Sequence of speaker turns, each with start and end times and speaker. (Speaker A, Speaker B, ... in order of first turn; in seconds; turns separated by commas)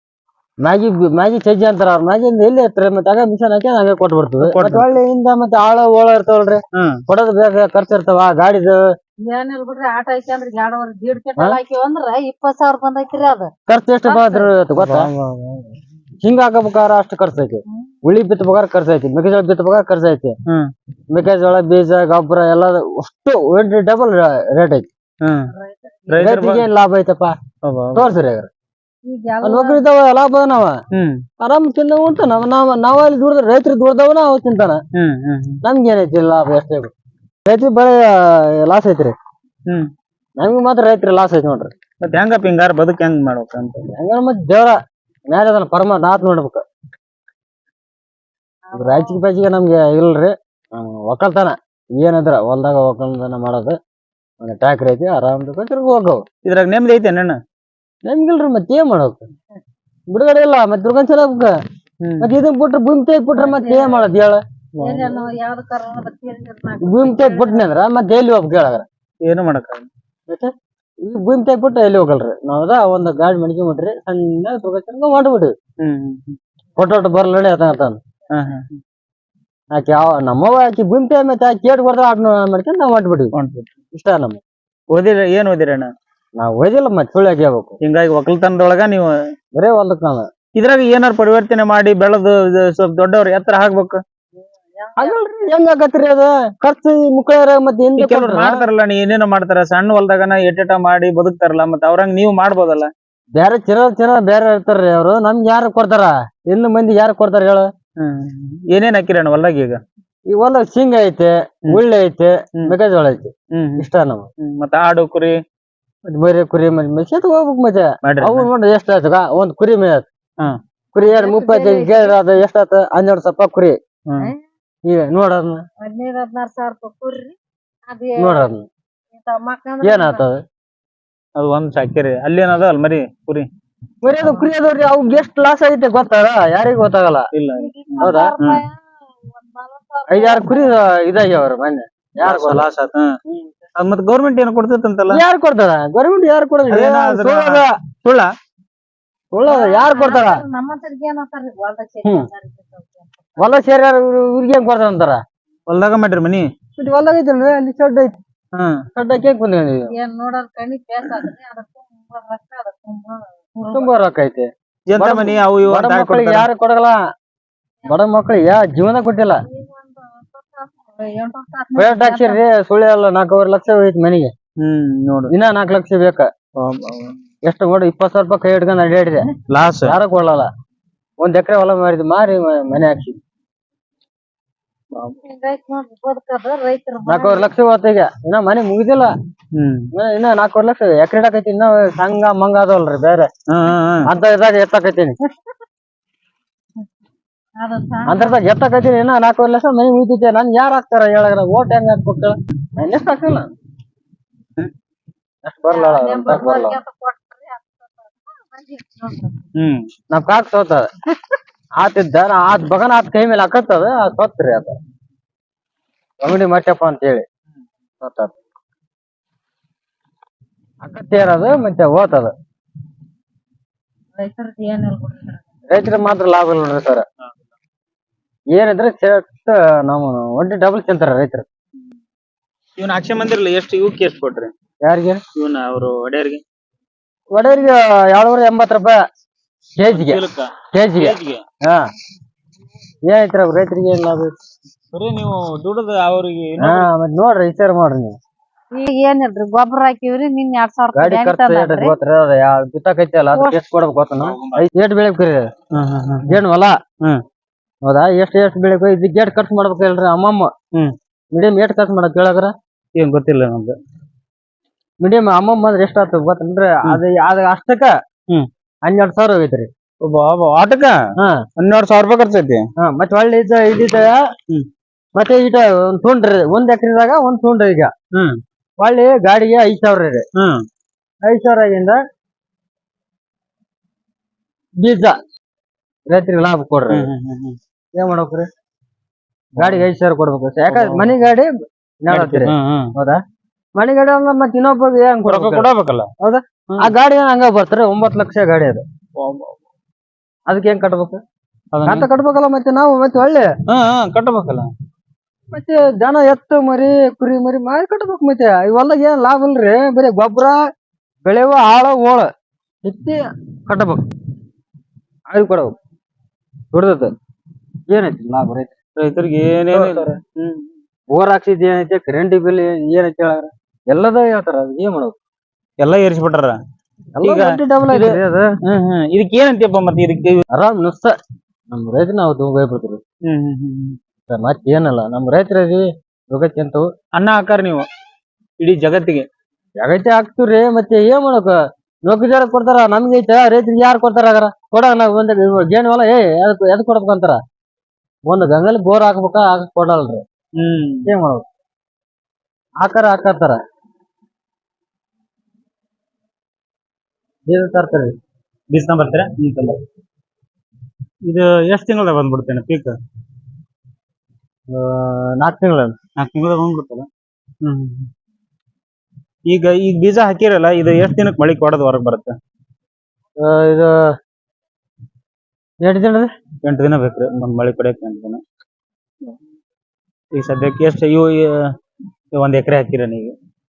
Speaker A: 0.6-8.8, Speaker B: 4.4-4.9, Speaker B: 6.7-7.0, Speaker C: 9.3-13.5, Speaker A: 13.7-15.1, Speaker C: 14.0-14.5, Speaker B: 14.8-15.7, Speaker A: 16.2-20.3, Speaker A: 21.1-24.9, Speaker B: 25.2-25.5, Speaker C: 25.6-25.9, Speaker B: 26.1-26.6, Speaker A: 26.2-27.3, Speaker B: 27.6-28.1, Speaker A: 27.9-28.5, Speaker C: 29.0-29.8, Speaker A: 29.4-30.8, Speaker B: 30.9-31.2, Speaker A: 31.4-34.8, Speaker B: 34.9-35.6, Speaker A: 35.6-36.9, Speaker A: 37.5-39.1, Speaker A: 40.4-41.7, Speaker B: 42.0-43.9, Speaker A: 43.9-44.8, Speaker A: 45.3-46.6, Speaker C: 48.7-49.2, Speaker A: 48.7-53.8, Speaker A: 54.4-56.2, Speaker B: 56.4-57.4, Speaker A: 58.0-59.2, Speaker A: 60.1-61.5, Speaker B: 62.0-62.3, Speaker A: 62.2-64.4, Speaker C: 63.4-64.0, Speaker B: 64.8-65.3, Speaker C: 64.8-67.7, Speaker A: 66.8-68.8, Speaker B: 69.2-69.9, Speaker A: 71.0-75.5, Speaker B: 75.8-76.3, Speaker A: 76.8-78.0, Speaker B: 78.3-78.8, Speaker A: 79.7-83.3, Speaker B: 83.3-83.7, Speaker A: 83.9-84.4, Speaker B: 84.9-85.9, Speaker A: 86.4-87.8, Speaker B: 87.8-89.1, Speaker A: 89.5-90.2, Speaker B: 90.5-94.0, Speaker C: 94.8-95.1, Speaker A: 95.0-98.7, Speaker B: 98.0-102.9, Speaker A: 103.3-107.7, Speaker B: 108.0-109.8, Speaker A: 110.3-114.3, Speaker B: 113.5-113.8, Speaker B: 114.4-115.4, Speaker A: 116.1-120.0, Speaker B: 118.0-118.5, Speaker A: 120.9-123.8, Speaker C: 121.0-122.2, Speaker B: 124.1-124.3, Speaker A: 124.8-125.6, Speaker C: 125.8-127.3, Speaker C: 127.9-128.5, Speaker A: 128.2-128.7, Speaker C: 129.1-130.3, Speaker A: 129.8-130.4, Speaker B: 131.3-133.4, Speaker A: 134.0-137.3, Speaker C: 134.2-134.5, Speaker B: 137.3-138.6, Speaker C: 137.5-138.8, Speaker A: 138.0-138.3, Speaker C: 139.3-140.7, Speaker A: 140.1-142.7, Speaker B: 142.2-143.1, Speaker B: 143.8-145.2, Speaker A: 145.1-147.7, Speaker B: 146.7-148.3, Speaker A: 149.3-150.4, Speaker C: 149.4-153.5, Speaker A: 153.4-155.2, Speaker B: 155.7-156.4, Speaker A: 156.8-158.1, Speaker B: 158.6-158.8, Speaker A: 158.9-159.9, Speaker C: 159.9-163.9, Speaker A: 163.7-167.0, Speaker B: 164.9-166.4, Speaker A: 167.8-169.4, Speaker C: 169.5-172.4, Speaker A: 171.8-174.3, Speaker B: 174.6-175.3, Speaker A: 175.3-176.3, Speaker B: 176.6-177.1, Speaker A: 177.4-179.3, Speaker B: 179.5-179.9, Speaker A: 179.8-180.5, Speaker A: 181.2-183.2, Speaker C: 185.2-187.5, Speaker A: 187.1-189.1, Speaker B: 189.5-189.9, Speaker A: 189.9-193.3, Speaker B: 193.5-194.1, Speaker A: 194.1-195.2, Speaker C: 197.6-198.4, Speaker A: 198.1-203.5, Speaker A: 205.4-206.8, Speaker C: 205.7-209.4, Speaker B: 209.6-209.8, Speaker A: 210.1-210.9, Speaker A: 211.8-214.8, Speaker A: 216.2-217.2, Speaker A: 218.0-218.3, Speaker A: 220.8-222.3, Speaker C: 224.1-225.4, Speaker A: 225.7-227.0, Speaker A: 228.5-231.4, Speaker B: 232.8-234.5, Speaker A: 234.8-235.2, Speaker B: 235.3-236.4, Speaker A: 237.3-239.0, Speaker A: 239.8-241.8, Speaker B: 239.9-241.4, Speaker A: 243.0-244.3, Speaker B: 244.9-246.9, Speaker A: 246.6-248.2, Speaker C: 248.7-251.9, Speaker A: 250.9-255.4, Speaker C: 253.3-253.6, Speaker B: 254.2-254.6, Speaker B: 255.7-256.3, Speaker A: 256.3-256.7, Speaker A: 257.8-260.5, Speaker A: 261.3-262.5, Speaker B: 262.9-263.7, Speaker A: 265.0-267.9, Speaker A: 268.8-269.7, Speaker B: 270.0-270.9, Speaker B: 271.6-272.6, Speaker A: 272.8-274.2, Speaker A: 275.1-277.9, Speaker A: 278.8-280.2, Speaker B: 280.3-280.6, Speaker A: 281.2-282.0, Speaker A: 284.8-285.1, Speaker A: 286.1-287.1, Speaker B: 286.9-287.6, Speaker A: 287.9-288.5, Speaker B: 289.6-289.8, Speaker A: 289.6-291.5, Speaker B: 290.7-291.1, Speaker A: 292.0-293.2, Speaker B: 292.1-292.9, Speaker A: 293.8-295.7, Speaker B: 295.2-296.1, Speaker A: 296.2-298.8, Speaker B: 299.2-299.6, Speaker A: 300.5-301.2, Speaker B: 301.7-302.1, Speaker A: 301.8-303.5, Speaker B: 303.7-304.7, Speaker A: 305.5-310.6, Speaker A: 311.2-312.3, Speaker A: 312.8-314.0, Speaker A: 315.3-315.7, Speaker A: 316.7-317.1, Speaker A: 317.9-318.7, Speaker B: 319.0-320.7, Speaker A: 319.7-320.1, Speaker A: 321.1-325.1, Speaker B: 325.8-326.6, Speaker A: 327.2-328.4, Speaker B: 327.2-330.4, Speaker A: 330.5-331.1, Speaker A: 331.7-333.0, Speaker B: 333.3-334.0, Speaker A: 334.3-336.9, Speaker B: 337.1-337.8, Speaker B: 338.6-339.2, Speaker A: 339.8-341.5, Speaker A: 342.1-347.4, Speaker A: 348.3-350.2, Speaker B: 350.6-351.1, Speaker A: 351.1-351.4, Speaker A: 352.8-353.6, Speaker A: 357.5-358.1, Speaker B: 358.7-359.8, Speaker B: 361.2-362.9, Speaker A: 364.7-365.9, Speaker B: 366.2-367.1, Speaker B: 367.6-368.1, Speaker B: 369.5-372.4, Speaker A: 373.4-374.1, Speaker A: 375.8-376.3, Speaker B: 376.6-378.4, Speaker B: 380.3-381.7, Speaker B: 382.4-383.3